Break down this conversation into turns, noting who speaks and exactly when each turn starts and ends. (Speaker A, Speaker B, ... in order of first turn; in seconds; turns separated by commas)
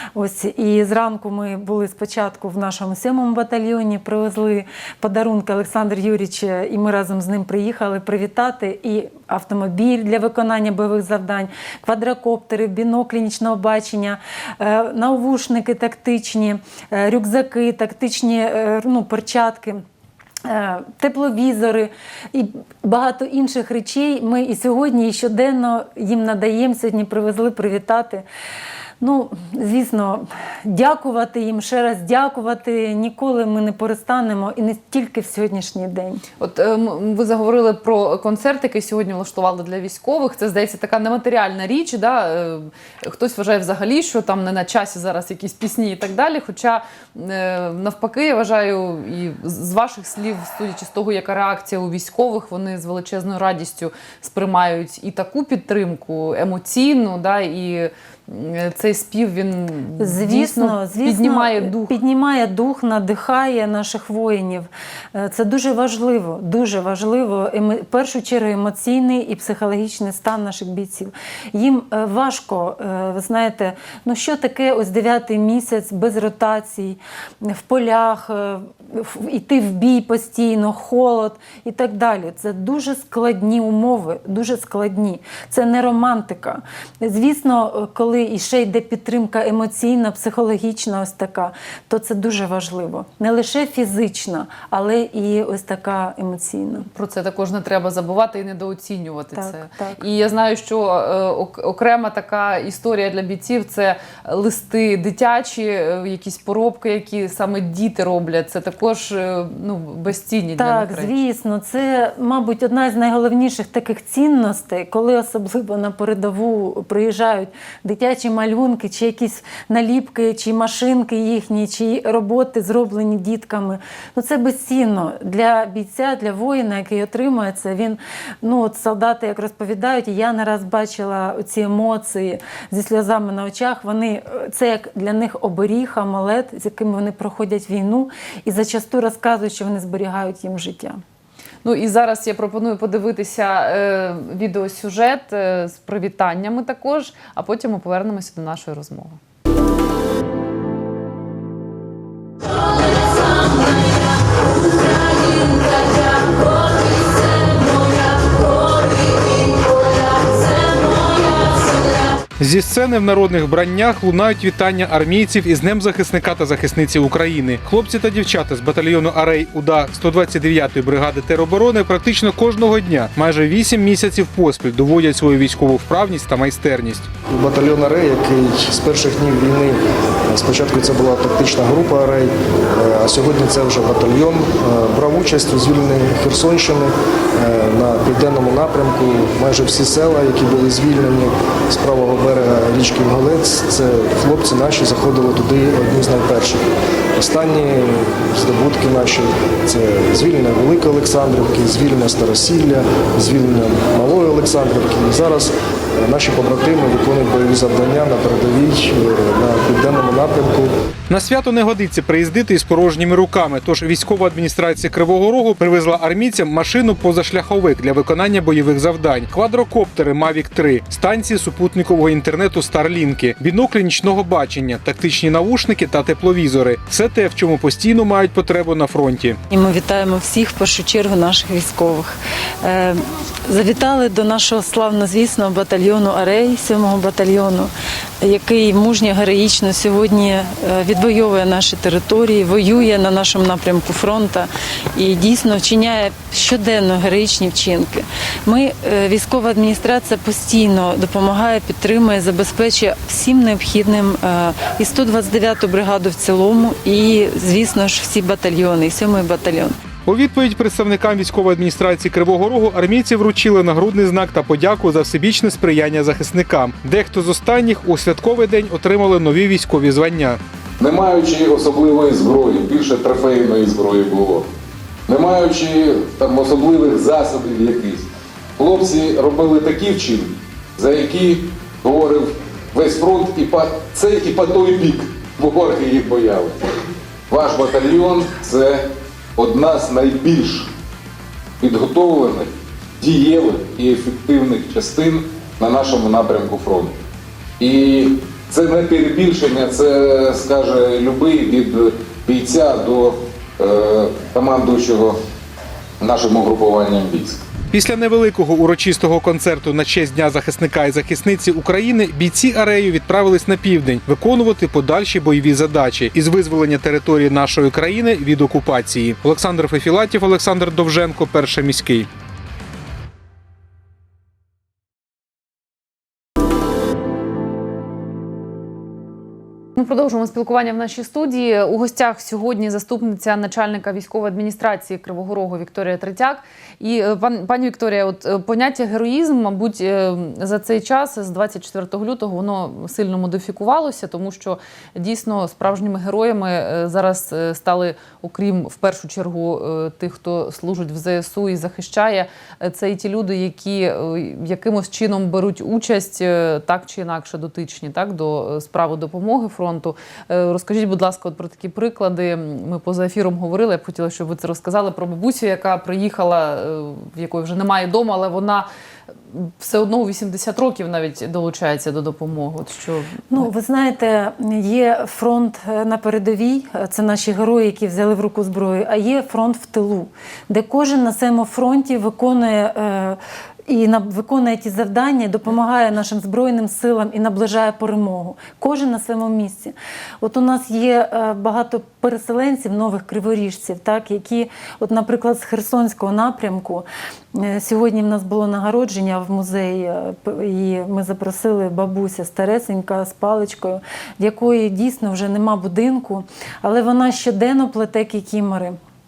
Speaker A: 0.1-19.8, Speaker A: 20.4-28.2, Speaker A: 29.0-36.2, Speaker B: 36.4-62.0, Speaker A: 60.0-96.9, Speaker B: 96.8-111.2, Speaker A: 99.3-100.0, Speaker A: 110.6-141.0, Speaker B: 141.6-149.2, Speaker C: 162.4-177.1, Speaker D: 177.3-196.7, Speaker D: 197.2-210.7, Speaker C: 211.1-229.4, Speaker A: 229.5-259.8, Speaker C: 260.1-270.4, Speaker E: 270.8-274.5, Speaker E: 275.1-286.6, Speaker E: 287.3-290.7, Speaker E: 291.6-297.0, Speaker E: 297.6-305.2, Speaker E: 306.0-307.4, Speaker C: 307.7-322.1, Speaker B: 329.8-368.7, Speaker B: 369.3-373.5, Speaker A: 373.3-408.8